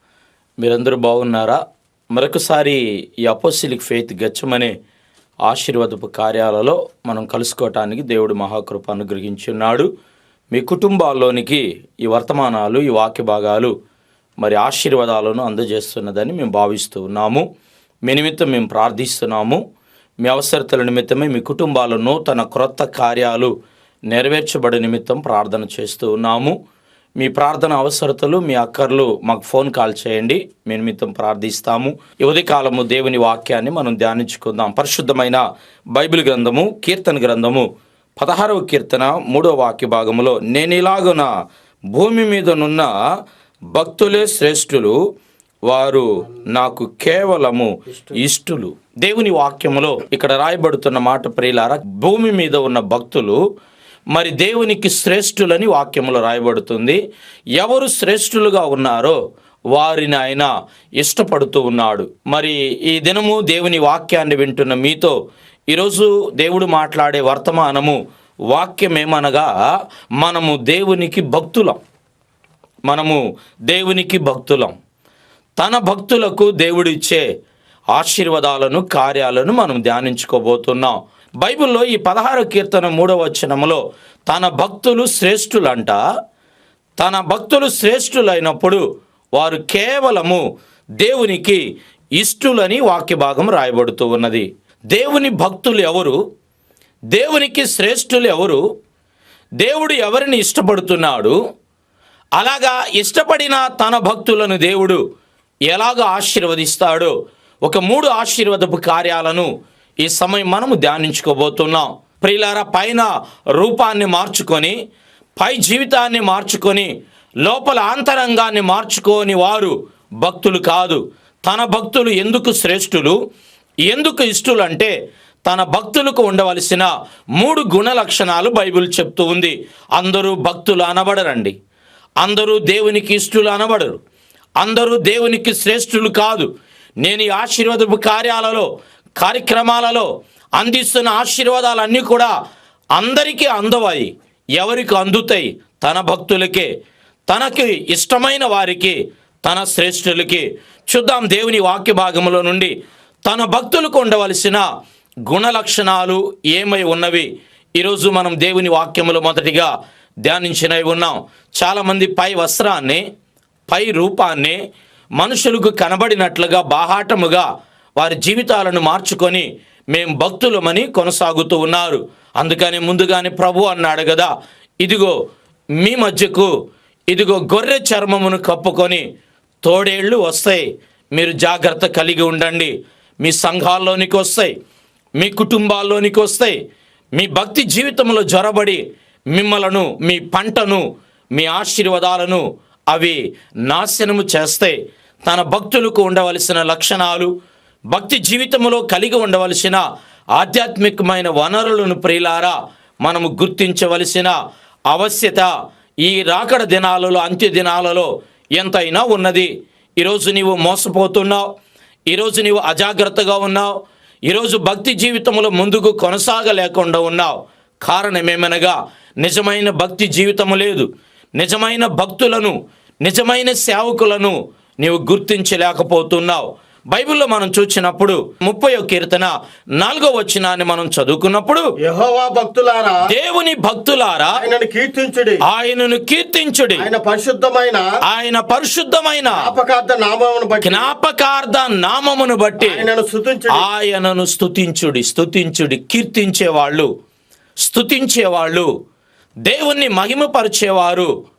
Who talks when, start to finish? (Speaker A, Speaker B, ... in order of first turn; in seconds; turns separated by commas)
Speaker A: 0.6-1.6, Speaker A: 2.1-4.8, Speaker A: 5.5-9.9, Speaker A: 10.5-13.7, Speaker A: 14.4-17.5, Speaker A: 18.1-19.6, Speaker A: 20.2-23.5, Speaker A: 24.1-26.6, Speaker A: 27.2-35.4, Speaker A: 36.0-41.3, Speaker A: 41.9-42.9, Speaker A: 43.7-45.0, Speaker A: 45.7-53.4, Speaker A: 54.1-57.0, Speaker A: 57.6-59.2, Speaker A: 59.8-65.2, Speaker A: 65.7-69.5, Speaker A: 70.2-71.8, Speaker A: 72.9-74.8, Speaker A: 75.6-77.3, Speaker A: 78.0-86.0, Speaker A: 87.0-88.8, Speaker A: 89.4-90.4, Speaker A: 91.0-91.6, Speaker A: 92.2-96.2, Speaker A: 97.1-98.6, Speaker A: 99.6-101.4, Speaker A: 102.4-105.0, Speaker A: 105.7-107.1, Speaker A: 107.7-109.5, Speaker A: 110.0-114.8, Speaker A: 115.4-116.9, Speaker A: 117.5-123.2, Speaker A: 123.9-124.9, Speaker A: 125.5-131.6, Speaker A: 132.2-134.0, Speaker A: 134.6-136.5, Speaker A: 137.0-142.3, Speaker A: 143.0-146.7, Speaker A: 147.3-152.7, Speaker A: 153.3-154.7, Speaker A: 155.3-159.7, Speaker A: 160.3-163.0, Speaker A: 163.7-164.6, Speaker A: 165.2-167.5, Speaker A: 168.0-174.3, Speaker A: 174.8-175.2, Speaker A: 175.8-176.5, Speaker A: 177.1-179.1, Speaker A: 179.6-184.5, Speaker A: 185.2-186.6, Speaker A: 187.2-188.8, Speaker A: 189.3-190.8, Speaker A: 191.4-197.3, Speaker A: 197.9-199.8, Speaker A: 200.4-204.3, Speaker A: 204.9-205.5, Speaker A: 206.1-211.5, Speaker A: 212.1-213.8, Speaker A: 214.3-231.7, Speaker B: 231.8-233.0, Speaker A: 233.1-234.4, Speaker B: 234.4-235.4, Speaker A: 235.5-236.9, Speaker B: 236.8-237.9, Speaker A: 238.1-239.5, Speaker B: 239.3-240.9, Speaker A: 240.6-242.8, Speaker B: 242.6-243.6, Speaker A: 243.5-246.9, Speaker A: 247.7-248.7, Speaker A: 249.5-251.1